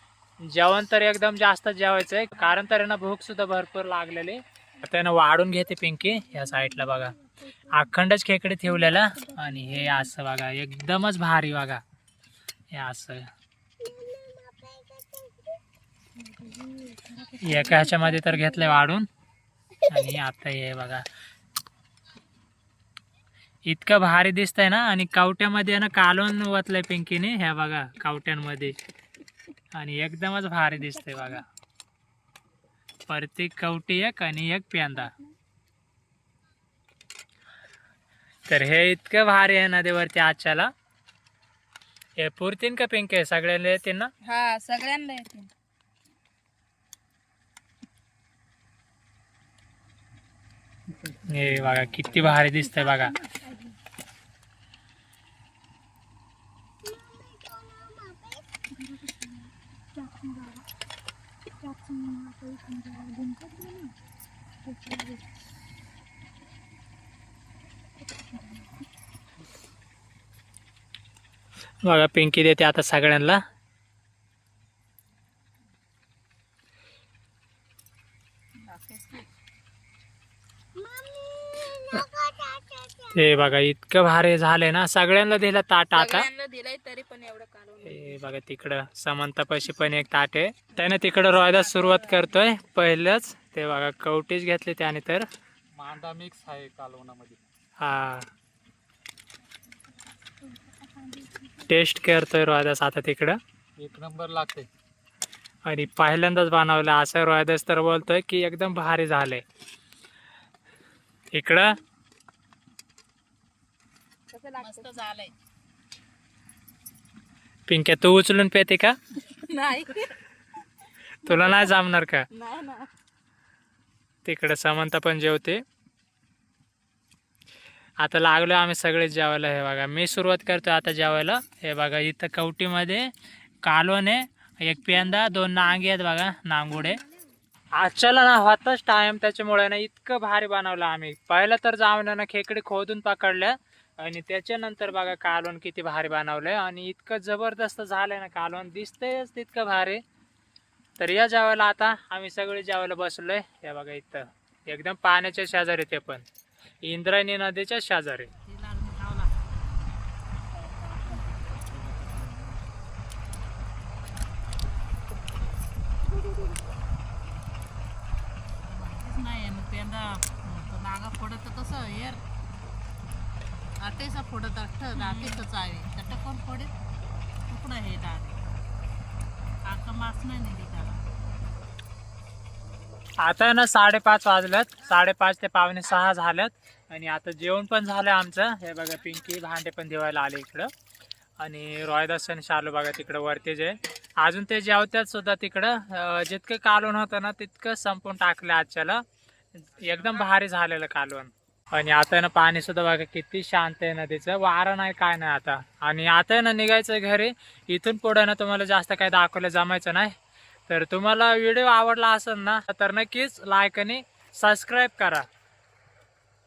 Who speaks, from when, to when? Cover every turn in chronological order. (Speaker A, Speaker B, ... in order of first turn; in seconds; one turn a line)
Speaker A: 0.4-7.2
Speaker B: 6.6-7.8
Speaker A: 7.7-11.8
Speaker B: 8.9-10.1
Speaker A: 12.7-13.3
Speaker B: 16.2-18.8
Speaker A: 17.4-19.1
Speaker A: 19.9-21.0
Speaker A: 23.7-28.8
Speaker A: 29.7-31.4
Speaker B: 31.1-31.4
Speaker A: 33.1-35.1
Speaker A: 38.5-40.7
Speaker A: 42.2-44.1
Speaker C: 44.2-45.5
Speaker D: 51.0-52.2
Speaker A: 51.3-53.2
Speaker B: 52.6-53.7
Speaker B: 58.7-60.6
Speaker B: 61.6-63.9
Speaker B: 64.7-65.2
Speaker B: 68.2-68.7
Speaker A: 71.8-73.4
Speaker C: 78.7-79.2
Speaker C: 81.4-82.7
Speaker A: 83.1-86.3
Speaker C: 86.0-88.2
Speaker A: 87.8-95.3
Speaker C: 91.7-92.0
Speaker D: 95.8-97.4
Speaker A: 97.8-98.3
Speaker B: 100.4-101.6
Speaker A: 101.7-103.4
Speaker D: 103.8-104.7
Speaker A: 105.7-109.4
Speaker A: 111.3-111.8
Speaker C: 114.3-115.0
Speaker B: 114.6-115.3
Speaker A: 117.7-119.0
Speaker B: 119.5-119.9
Speaker C: 119.6-120.1
Speaker A: 121.2-122.2
Speaker C: 121.3-121.7
Speaker C: 122.3-122.9
Speaker A: 124.2-125.6
Speaker A: 128.0-133.1
Speaker A: 133.6-137.0
Speaker A: 137.8-150.0
Speaker A: 151.0-156.2
Speaker A: 156.8-158.3
Speaker B: 158.5-159.4
Speaker B: 160.8-161.6
Speaker B: 168.7-172.2
Speaker B: 173.8-176.7
Speaker B: 177.5-178.4
Speaker B: 179.7-181.0
Speaker A: 183.2-190.7
Speaker A: 191.4-199.0
Speaker A: 199.6-210.1
Speaker A: 210.7-215.3